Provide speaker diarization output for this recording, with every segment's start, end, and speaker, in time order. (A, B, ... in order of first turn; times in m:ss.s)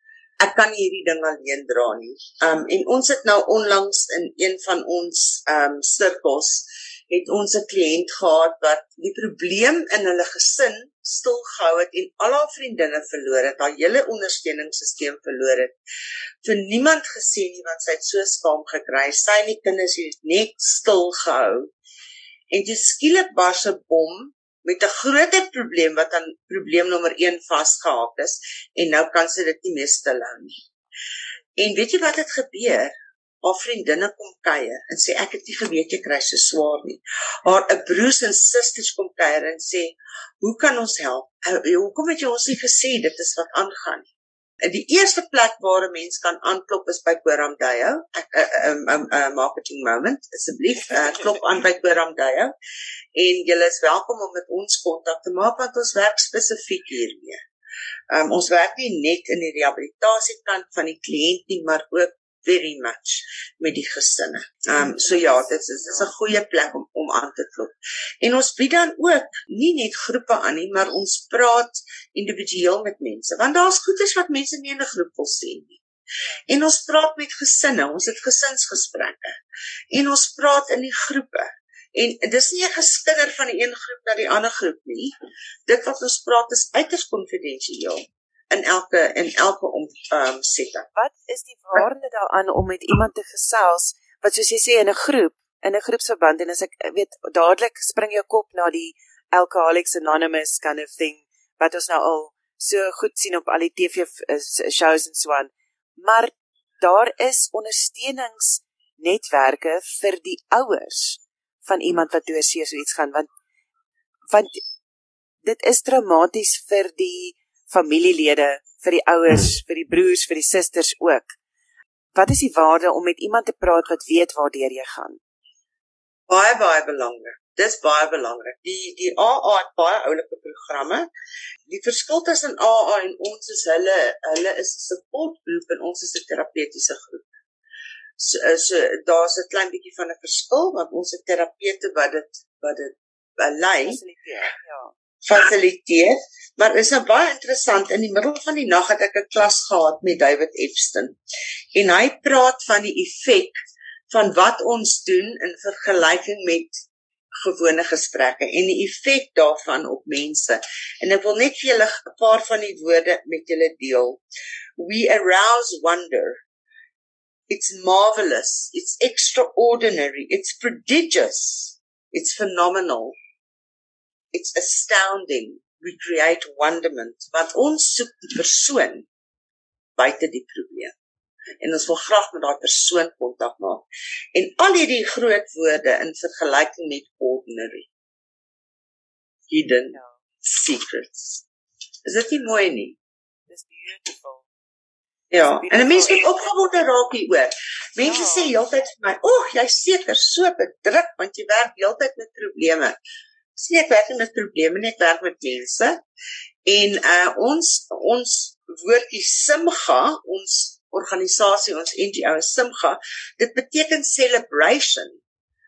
0:00.4-0:15.8 A
0:16.4-0:21.7 A
0:22.5-0:30.6 A
0:31.6-0:44.1 A
0:44.6-0:52.5 A
0:53.2-0:57.4 A
0:58.1-1:15.8 A
1:05.0-1:06.1 B
1:16.5-1:19.4 A
1:19.9-1:25.1 A
1:25.7-1:30.9 A
1:31.0-1:53.3 B
1:54.3-1:54.6 B
1:55.4-2:01.4 B
2:02.1-2:05.2 B
2:06.3-2:11.1 A
2:11.7-2:17.3 A
2:18.2-2:24.0 A
2:23.8-2:24.9 B
2:25.3-2:31.2 A
2:31.7-2:33.6 A
2:34.1-2:36.8 A
2:37.4-2:44.2 A
2:44.8-2:46.4 A
2:47.5-2:53.2 A
2:54.3-2:59.1 A
3:00.0-3:01.0 A
3:01.6-3:07.9 A
3:09.5-3:11.4 A
3:09.9-3:10.2 B
3:12.0-3:13.0 A
3:13.5-3:14.5 B
3:15.3-3:23.0 A
3:15.3-3:16.5 B
3:18.0-3:18.5 B
3:23.6-3:26.0 A
3:26.6-3:35.2 A